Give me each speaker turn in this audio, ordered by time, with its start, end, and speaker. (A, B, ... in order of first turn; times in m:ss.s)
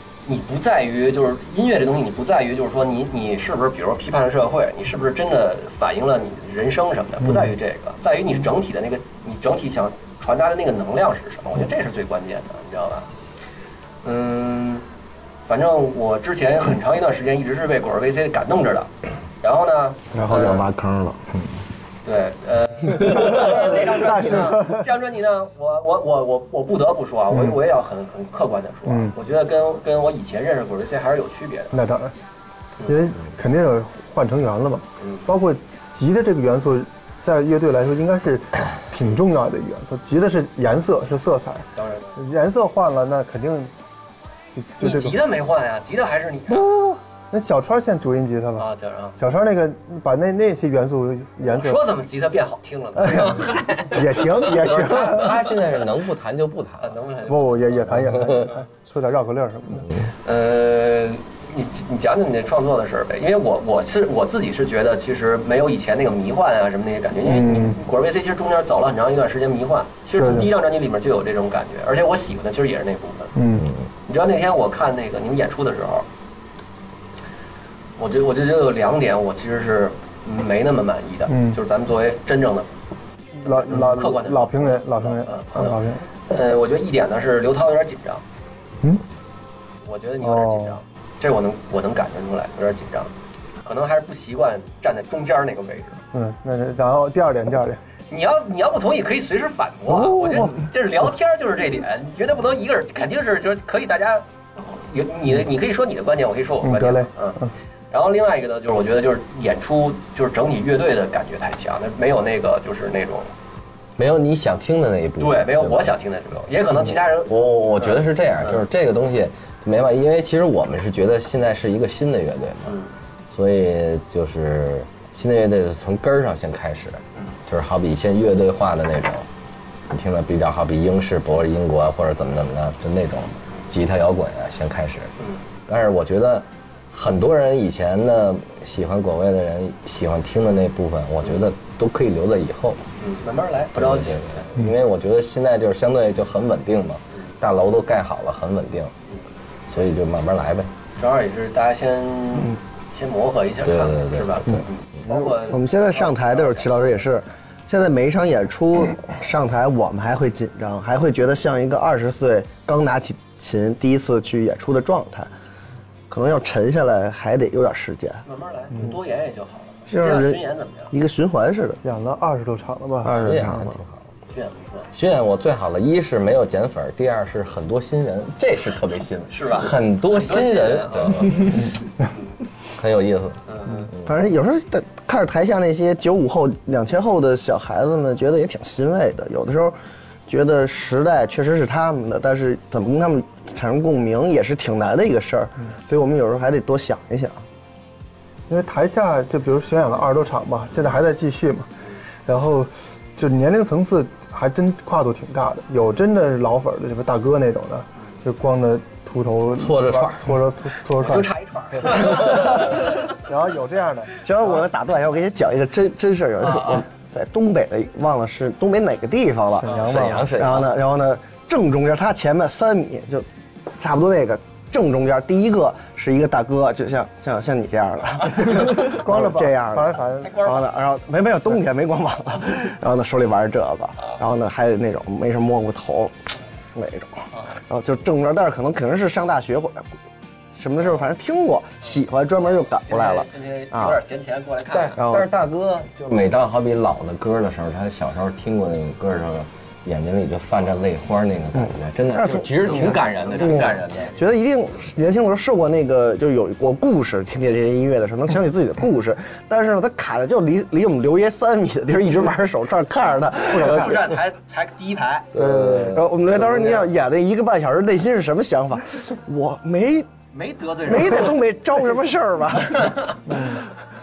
0:00.3-0:13.1 A
0:07.2-0:07.5 B
0:14.0-0:14.8 A
0:15.5-0:18.9 A
0:19.4-0:20.6 A
0:20.1-0:21.2 C
0:22.0-0:31.8 A
0:23.3-0:24.9 B
0:28.9-0:29.1 B
0:31.7-0:32.1 B
0:32.8-0:43.7 B
0:35.0-0:35.3 A
0:41.8-0:42.2 A
0:44.5-0:45.2 B
0:44.8-0:46.7 A
0:46.5-0:51.8 B
0:48.6-0:49.2 A
0:51.4-0:54.5 A
0:53.0-0:55.4 B
0:54.6-0:57.0 D
0:56.8-0:57.9 A
0:57.3-0:59.9 B
1:00.2-1:13.3 A
1:07.2-1:07.8 B
1:10.2-1:10.5 B
1:13.4-1:13.7 B
1:14.1-1:16.0 A
1:18.0-1:22.7 A
1:21.3-1:21.6 B
1:23.4-1:25.8 A
1:23.4-1:26.1 B
1:26.3-1:28.2 A
1:29.8-1:33.1 A
1:30.2-1:30.8 B
1:33.6-1:36.0 A
1:36.1-1:37.8 B
1:38.1-1:47.4 A
1:39.9-1:40.7 B
1:46.6-1:47.5 B
1:47.9-1:53.3 A
1:54.0-1:55.9 D
1:55.2-1:58.6 A
1:57.3-2:02.8 D
2:02.7-2:02.9 A
2:03.3-2:09.3 D
2:09.9-2:15.1 D
2:15.7-2:22.8 D
2:23.0-2:24.6 A
2:23.8-2:28.9 D
2:29.7-2:30.7 D
2:31.0-2:37.0 A
2:33.7-2:34.6 D
2:35.4-2:45.3 C
2:46.1-2:48.2 C
2:48.2-2:50.9 A
2:49.9-2:51.8 C
2:51.8-2:53.2 B
2:53.0-2:53.8 C
2:53.1-2:54.0 D
2:54.3-2:54.9 A
2:54.9-3:01.7 D
2:59.3-3:01.6 A
3:02.8-3:04.1 D
3:03.5-3:03.9 A
3:04.0-3:09.8 C
3:10.3-3:17.4 C
3:18.5-3:21.7 B
3:22.3-3:31.3 B
3:29.6-3:30.4 D
3:31.0-3:32.9 A
3:31.8-3:34.2 B
3:34.2-3:56.2 C
3:36.5-3:36.8 A
3:39.6-3:40.3 B
3:39.7-3:40.7 D
3:48.5-3:50.4 B
3:50.2-3:50.7 A
3:56.7-3:59.9 C
4:00.5-4:04.0 C
4:02.8-4:05.0 A
4:04.7-4:14.1 D
4:05.0-4:05.3 C
4:11.6-4:24.0 C
4:12.6-4:14.2 A
4:23.5-4:24.2 B
4:23.6-4:25.3 A
4:25.4-4:26.0 B
4:25.4-4:26.0 D
4:25.4-4:30.1 C
4:30.3-4:31.4 A
4:30.8-4:33.0 C
4:32.8-4:33.2 A
4:33.3-4:33.7 B